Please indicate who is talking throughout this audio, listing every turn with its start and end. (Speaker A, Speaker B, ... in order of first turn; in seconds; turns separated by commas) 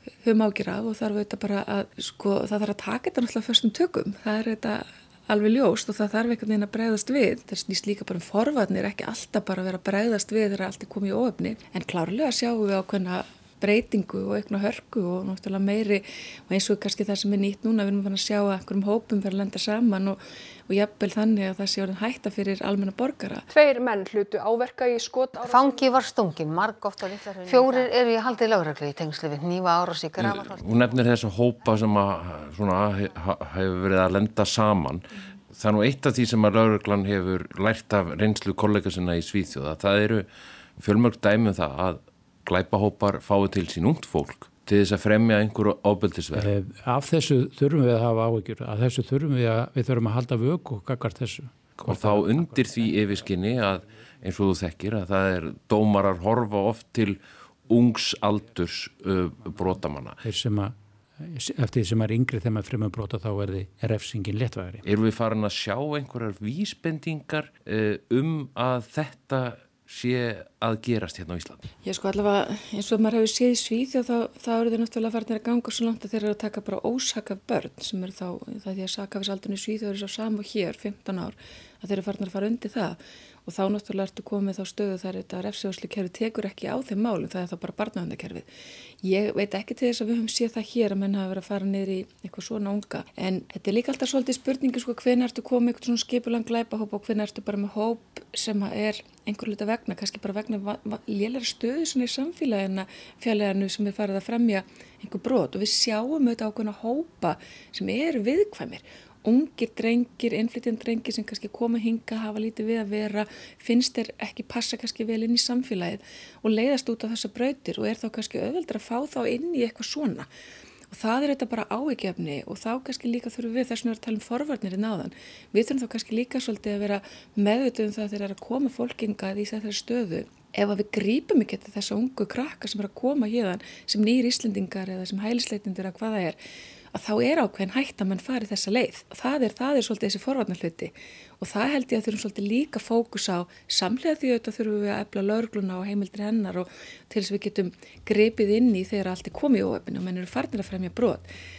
Speaker A: 0.2-23.5, Speaker B: 23.5-26.0, Speaker C: 25.4-31.1, Speaker D: 30.2-40.3, Speaker D: 40.8-46.5, Speaker E: 46.3-52.8, Speaker D: 51.8-60.2, Speaker E: 60.2-64.8, Speaker D: 64.8-71.6, Speaker A: 71.8-88.5, Speaker A: 89.0-120.3, Speaker A: 120.9-136.4, Speaker A: 136.9-151.3